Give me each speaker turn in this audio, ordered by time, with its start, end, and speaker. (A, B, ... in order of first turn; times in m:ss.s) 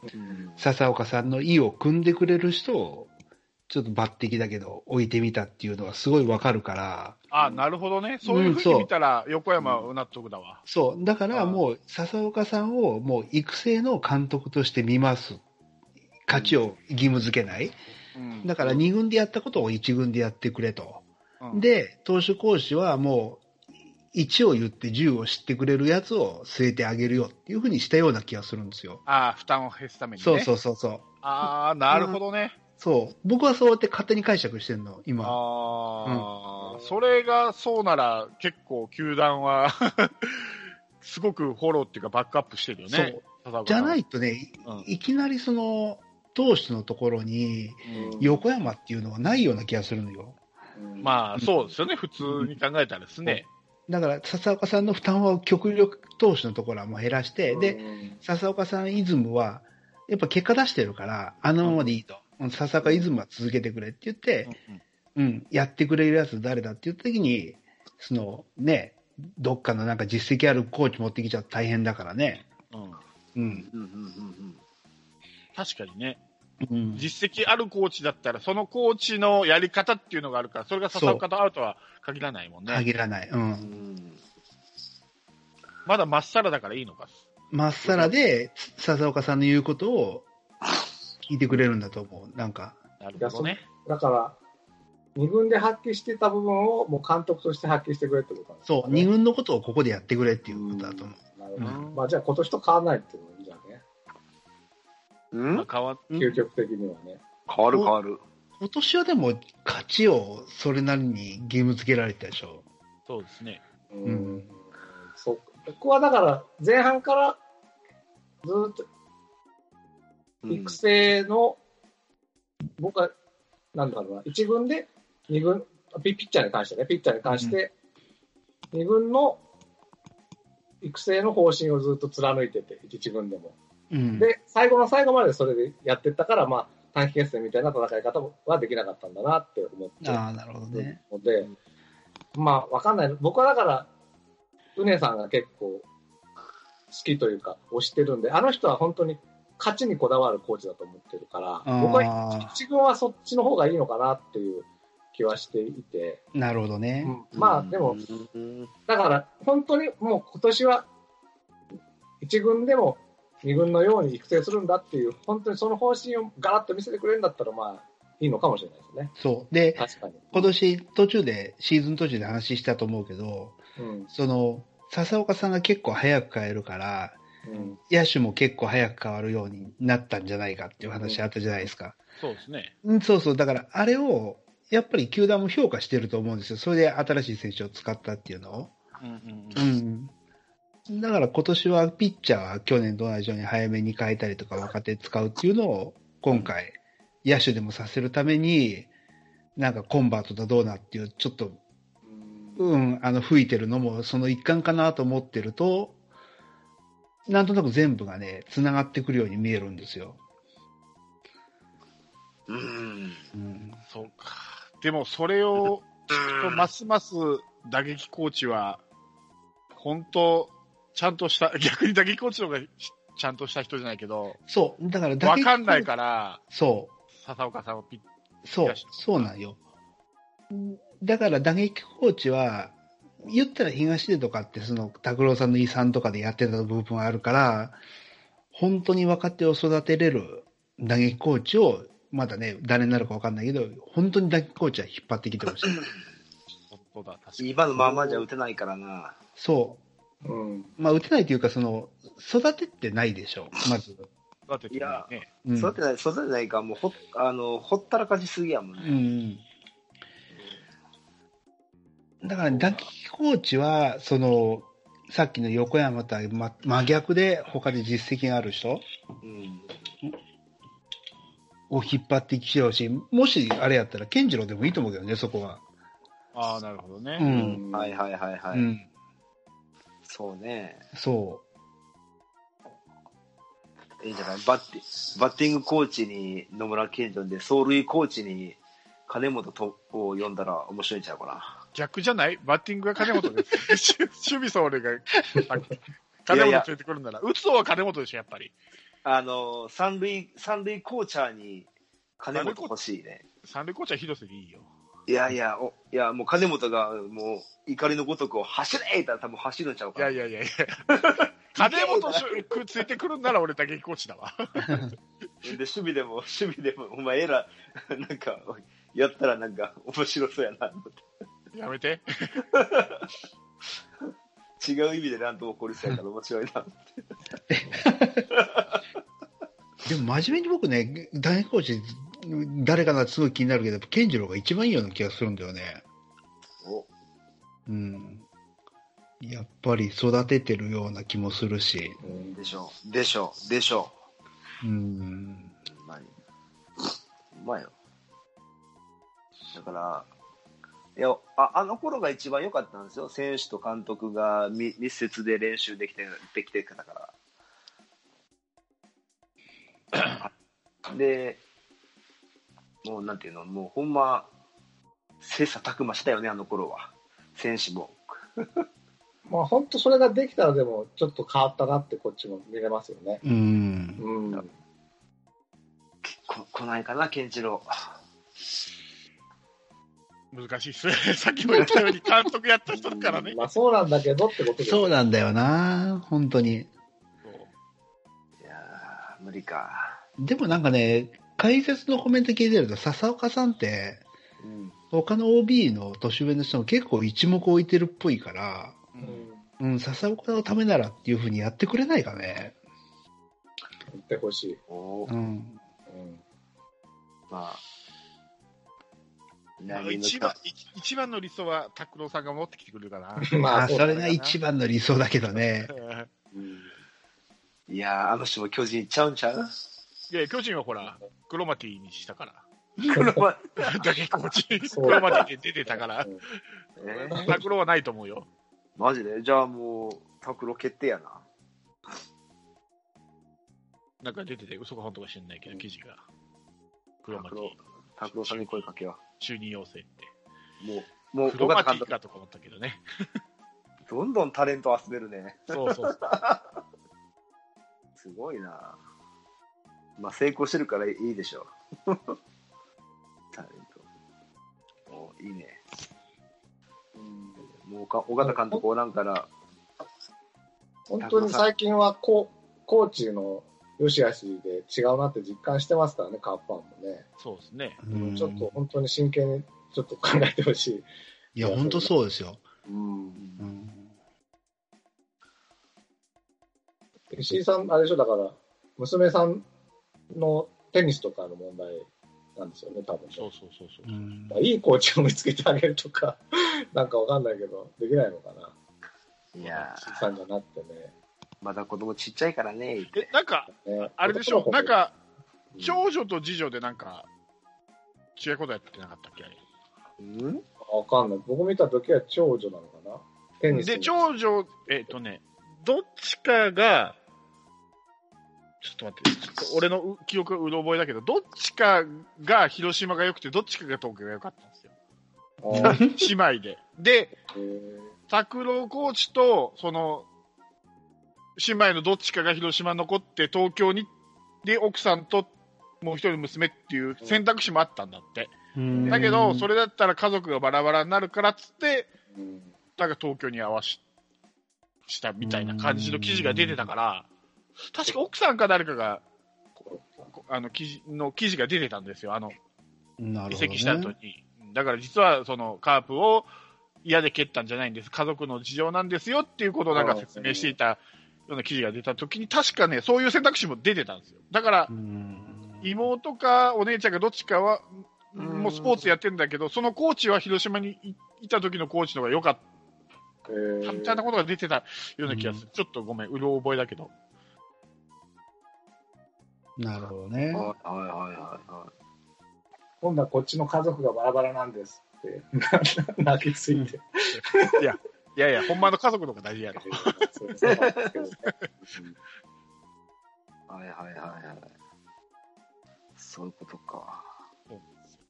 0:00.1-0:00.7 A
0:00.6-0:03.1 B
0:03.7-0:07.2 B
0:07.3-0:10.6 C
0:08.2-0:08.9 B
0:09.6-0:09.9 A
0:10.7-0:15.4 B
0:11.3-0:11.6 C
0:16.3-0:17.8 B
0:16.3-0:16.6 A
0:18.2-0:18.5 C
0:18.4-0:23.4 B
0:24.1-0:29.0 B
0:29.1-0:30.5 C
0:30.2-0:31.0 B
0:31.2-0:32.6 C
0:31.9-0:32.2 B
0:32.8-0:35.4 B
0:35.2-0:44.0 C
0:42.9-0:50.4 B
0:47.9-0:48.2 C
0:47.9-0:48.4 D
0:50.8-0:51.2 D
0:51.0-0:53.5 C
0:52.2-0:52.5 B
0:53.2-1:04.5 B
0:57.5-0:58.2 D
1:01.6-1:01.9 C
1:04.5-1:04.8 C
1:05.2-1:12.5 B
1:12.7-1:13.0 C
1:13.4-1:13.7 B
1:13.5-1:14.6 A
1:15.6-1:16.2 C
1:16.6-1:17.1 B
1:17.0-1:22.9 C
1:20.9-1:21.2 B
1:22.7-1:23.7 B
1:23.6-1:24.2 A
1:25.9-1:27.2 C
1:27.5-1:30.3 B
1:27.8-1:28.1 C
1:31.3-1:32.8 B
1:33.0-1:33.6 C
1:33.2-1:34.4 D
1:35.2-1:39.1 D
1:38.7-1:41.9 B
1:40.5-1:43.8 D
1:41.6-1:42.0 C
1:45.3-1:45.7 A
1:45.5-1:46.1 C
1:46.1-1:47.2 D
1:47.5-1:48.2 A
1:48.6-1:52.6 B
1:53.1-1:53.6 C
1:53.9-1:57.4 D
1:54.0-1:54.5 B
1:58.4-1:58.8 D
2:00.4-2:00.8 A
2:00.5-2:01.6 D
2:02.8-2:03.1 D
2:03.8-2:07.7 D
2:07.3-2:07.6 B
2:08.7-2:09.4 D
2:10.8-2:13.6 D
2:13.9-2:14.3 B
2:14.2-2:21.5 D
2:20.0-2:21.0 B
2:22.4-2:23.9 D
2:24.8-2:25.8 D
2:26.9-2:36.2 D
2:31.6-2:32.5 B
2:36.3-2:37.2 B
2:37.0-2:38.0 D
2:37.4-2:38.7 A
2:38.9-2:40.9 D
2:42.2-2:49.1 D
2:49.2-2:53.6 B
2:49.8-2:50.5 D
2:53.8-2:54.1 D
2:54.1-2:57.2 B
2:57.4-2:57.8 D
2:57.8-3:02.0 B
3:02.2-3:02.7 C
3:02.8-3:08.8 B
3:09.0-3:09.7 C
3:09.6-3:10.1 B
3:10.9-3:18.9 B
3:19.6-3:21.6 B
3:22.1-3:22.7 D
3:22.6-3:26.0 B
3:27.3-3:30.2 B
3:32.5-3:33.3 A
3:33.3-3:33.8 B
3:33.9-3:38.8 C
3:36.1-3:36.6 A
3:39.8-3:44.4 C
3:44.5-3:45.9 B
3:45.2-3:46.4 C
3:46.5-3:46.9 B
3:47.2-3:48.0 C
3:48.4-3:49.6 B
3:48.6-3:49.3 C
3:50.5-3:57.8 B
3:58.5-4:05.8 B
4:06.7-4:07.6 C
4:07.4-4:09.2 A
4:07.8-4:08.2 B
4:09.4-4:09.8 B
4:10.2-4:10.7 D
4:10.8-4:14.1 B
4:14.5-4:15.3 C
4:14.7-4:19.0 A
4:15.4-4:15.8 B
4:18.8-4:19.4 B
4:22.2-4:28.8 B
4:22.5-4:22.8 A
4:29.2-4:29.8 A
4:31.7-4:35.6 B
4:36.3-4:37.3 C
4:37.2-4:37.6 B
4:37.3-4:38.0 D
4:37.3-4:38.7 A
4:38.5-4:38.9 B
4:40.0-4:40.8 A
4:40.9-4:41.4 B
4:44.0-4:51.6 A
4:51.8-4:58.5 C
4:56.3-4:56.7 A
4:59.0-5:01.7 A
5:02.2-5:03.2 A
5:02.3-5:02.7 C
5:03.4-5:04.7 C
5:05.1-5:10.2 A
5:10.0-5:10.8 C
5:10.9-5:12.6 A
5:11.6-5:14.9 C
5:15.4-5:21.0 A
5:21.5-5:22.4 C
5:22.5-5:23.1 A
5:24.6-5:27.0 A
5:27.5-5:28.3 B
5:28.3-5:28.8 A
5:29.8-5:35.8 B
5:36.6-5:36.9 A
5:37.7-5:38.2 B
5:39.2-5:42.0 B
5:42.0-5:42.4 D
5:42.3-5:44.0 A
5:44.6-5:45.5 B
5:45.7-5:46.1 A
5:47.3-5:47.7 A
5:49.5-5:50.1 A
5:51.0-5:57.1 A
6:00.0-6:00.3 A
6:00.9-6:01.4 A
6:02.8-6:04.3 A
6:05.2-6:08.6 A
6:09.3-6:13.2 D
6:13.2-6:14.0 B
6:14.0-6:14.5 D
6:16.0-6:17.9 A
6:20.3-6:23.4 C
6:23.2-6:25.0 D
6:24.6-6:26.7 B
6:27.2-6:27.5 C
6:28.4-6:30.0 A
6:30.2-6:34.0 B
6:34.4-6:34.8 A
6:34.9-6:38.8 B
6:39.0-6:39.2 C
6:39.0-6:39.4 D
6:39.6-6:42.6 B
6:43.9-6:44.6 D
6:44.7-6:45.1 A
6:45.1-6:45.6 B
6:45.9-6:46.2 D
6:47.3-6:47.6 A
6:49.6-6:50.3 A
6:49.7-6:54.4 C
6:53.3-6:53.9 D
6:53.5-6:55.7 B
6:55.7-6:56.1 C
6:56.3-6:56.7 D
6:57.7-6:59.5 A
7:00.1-7:02.4 C
7:02.8-7:04.2 A
7:02.9-7:03.2 D
7:03.6-7:06.3 C
7:04.7-7:05.2 D
7:04.8-7:05.2 A
7:06.8-7:07.4 A
7:06.9-7:08.3 C
7:08.8-7:11.2 A
7:14.0-7:16.0 C
7:17.0-7:20.1 C
7:17.1-7:19.0 A
7:20.6-7:21.9 A
7:21.3-7:22.8 C
7:23.9-7:26.5 A
7:25.5-7:26.0 C
7:28.0-7:28.8 A
7:30.0-7:32.2 A
7:33.3-7:33.8 A
7:34.9-7:35.6 A
7:37.0-7:37.4 D
7:37.6-7:39.3 A
7:38.2-7:38.6 D
7:40.9-7:47.0 D
7:41.0-7:41.5 A
7:47.2-7:47.8 C
7:47.8-7:48.5 B
7:47.9-7:50.9 D
7:51.4-7:52.4 B
7:51.4-7:51.9 D
7:52.7-7:53.2 D
7:53.2-7:53.5 A
7:53.4-7:53.9 B
7:57.1-7:59.4 D
8:00.1-8:03.3 D
8:03.2-8:04.0 C
8:03.9-8:04.4 B
8:04.3-8:06.2 D
8:06.7-8:08.5 D
8:09.4-8:10.0 A
8:09.4-8:09.7 C
8:09.8-8:10.9 D
8:11.4-8:13.1 A
8:12.9-8:14.9 C
8:13.5-8:14.7 D
8:15.6-8:17.1 C
8:18.2-8:19.4 C
8:20.0-8:20.4 A
8:20.6-8:23.9 D
8:23.5-8:27.0 C
8:28.6-8:34.7 C
8:35.4-8:35.8 D
8:35.5-8:36.1 B
8:35.6-8:37.2 C
8:37.3-8:37.9 D
8:38.1-8:40.1 C
8:41.4-8:43.9 C
8:44.4-8:45.3 C
8:45.8-8:48.4 C
8:48.6-8:49.5 B
8:48.7-8:49.1 D
8:48.9-8:51.9 C
8:52.1-8:52.5 D
8:52.8-8:53.8 C
8:54.9-8:57.1 C
8:55.2-8:56.7 B
8:57.7-8:59.0 C
8:59.7-9:00.1 D
9:00.1-9:02.4 C
9:03.0-9:03.9 B
9:03.3-9:06.3 C
9:06.8-9:14.7 C
9:09.7-9:10.5 D
9:14.7-9:15.8 B
9:15.6-9:22.4 C
9:18.2-9:18.9 A
9:23.3-9:24.0 D
9:23.6-9:26.9 C
9:25.1-9:25.4 B
9:29.6-9:30.5 B
9:30.3-9:31.7 A
9:32.8-9:37.6 D
9:37.6-9:40.0 C
9:39.6-9:42.0 D
9:40.4-9:41.1 A
9:43.5-9:44.5 A
9:46.0-9:47.1 A